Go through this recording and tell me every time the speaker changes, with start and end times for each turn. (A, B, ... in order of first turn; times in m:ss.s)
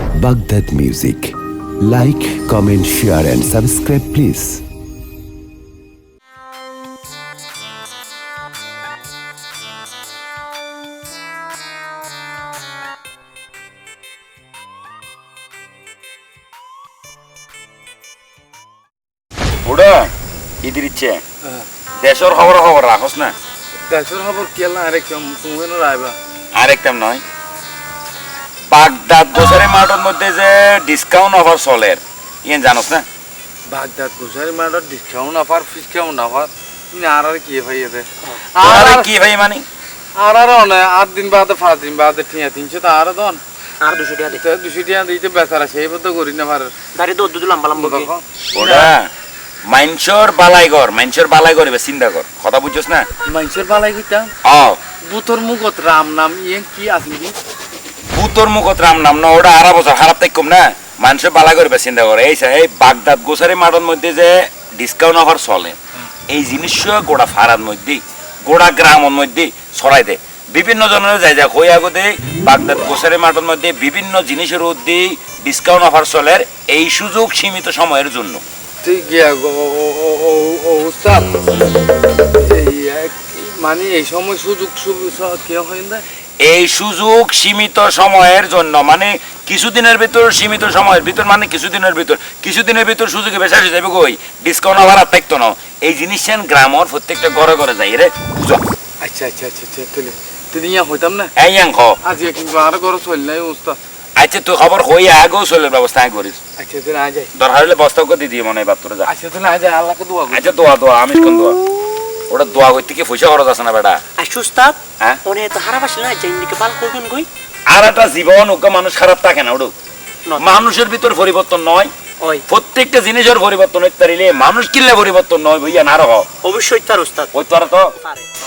0:00.2-0:04.6 A
0:19.6-0:20.1 B
0:20.6-0:21.2 B
0:22.0-0:23.3 B
0:23.9-0:26.2 C
0:26.5-0:27.2 B
0:28.7-0:33.0 B
0:33.7-0:39.1 C
0:38.6-0:39.6 B
0:40.2-0:43.4 C
0:43.8-0:44.4 D
0:44.3-0:46.7 C
0:46.9-0:48.1 D
0:47.7-0:48.9 C
0:48.5-0:49.1 B
0:49.7-0:53.1 B
0:53.3-0:54.3 C
0:54.4-0:54.8 B
0:55.0-0:57.3 C
0:58.1-1:05.8 B
1:06.3-1:18.4 B
1:18.8-1:21.3 C
1:22.4-1:26.0 C
1:26.4-1:38.6 B
1:39.0-1:41.3 C
1:41.4-1:42.0 B
1:42.0-1:43.8 C
1:44.2-1:46.4 B
1:46.6-1:47.3 C
1:47.4-1:49.1 B
1:49.0-1:50.6 C
1:50.3-1:51.6 B
1:52.3-1:54.0 B
1:54.2-1:57.3 D
1:57.7-1:59.7 B
2:00.2-2:00.7 D
2:00.3-2:01.9 B
2:02.5-2:06.3 B
2:06.4-2:07.3 D
2:07.3-2:07.9 B